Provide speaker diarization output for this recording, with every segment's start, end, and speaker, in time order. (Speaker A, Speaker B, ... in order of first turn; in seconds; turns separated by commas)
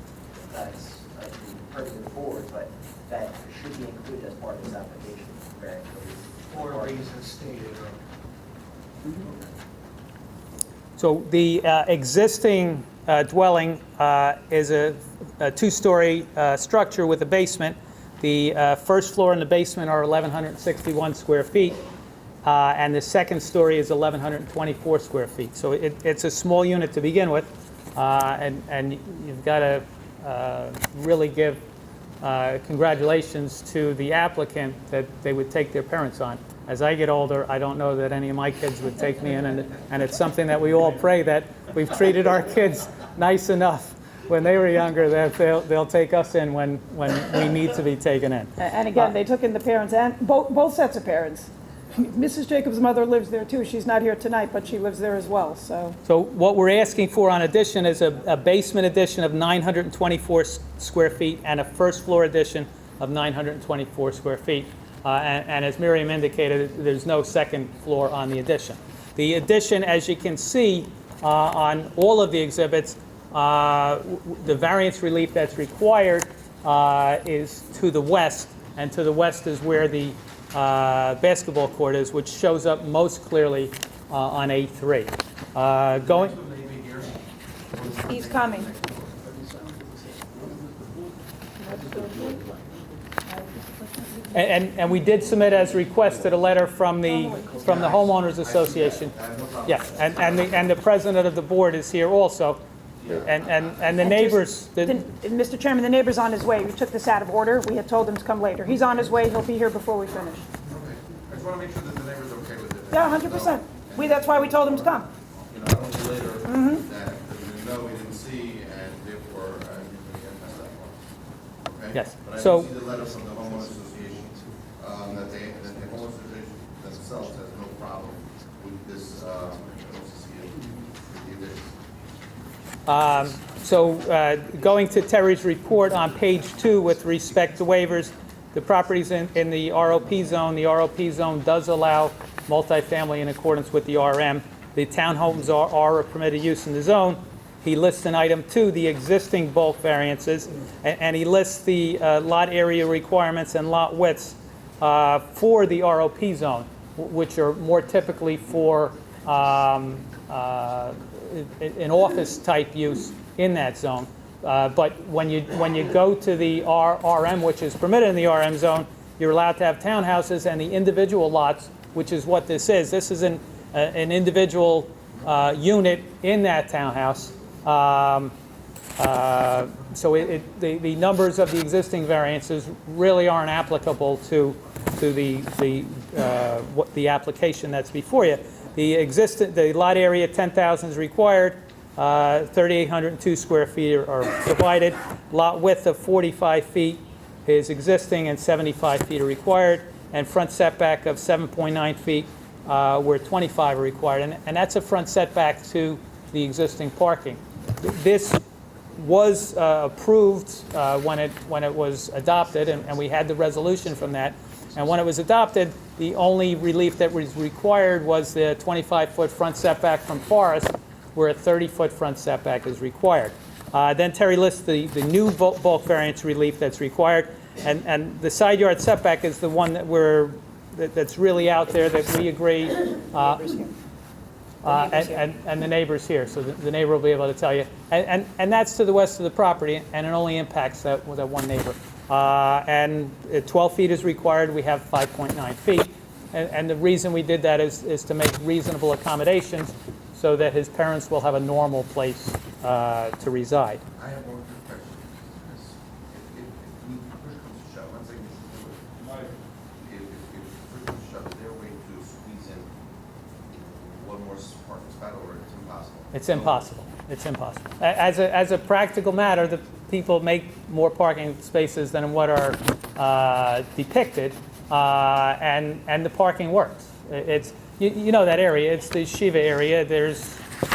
Speaker A: 0.4-7.1, Speaker B: 6.5-8.0, Speaker C: 11.0-21.8, Speaker C: 22.4-31.6, Speaker C: 32.2-49.1, Speaker D: 48.6-56.0, Speaker C: 56.1-86.4, Speaker E: 86.0-87.2, Speaker E: 87.7-89.2, Speaker D: 88.1-88.7, Speaker B: 89.2-91.2, Speaker D: 91.6-92.4, Speaker B: 91.7-93.0, Speaker D: 93.3-94.2, Speaker C: 94.3-102.6, Speaker B: 95.5-95.8, Speaker D: 97.0-97.7, Speaker E: 97.6-100.8, Speaker E: 103.0-104.0, Speaker C: 103.1-105.0, Speaker D: 104.0-110.4, Speaker E: 110.6-121.0, Speaker D: 112.9-115.1, Speaker D: 116.5-116.8, Speaker B: 119.7-120.6, Speaker E: 121.6-131.7, Speaker C: 121.9-122.7, Speaker B: 122.7-138.2, Speaker C: 132.9-178.3, Speaker C: 179.0-208.4, Speaker C: 208.9-233.6, Speaker B: 212.4-215.2, Speaker D: 233.4-233.7, Speaker C: 234.6-253.8, Speaker D: 234.7-235.2, Speaker E: 254.0-259.2, Speaker E: 259.8-262.7, Speaker E: 263.5-266.7, Speaker C: 266.1-280.4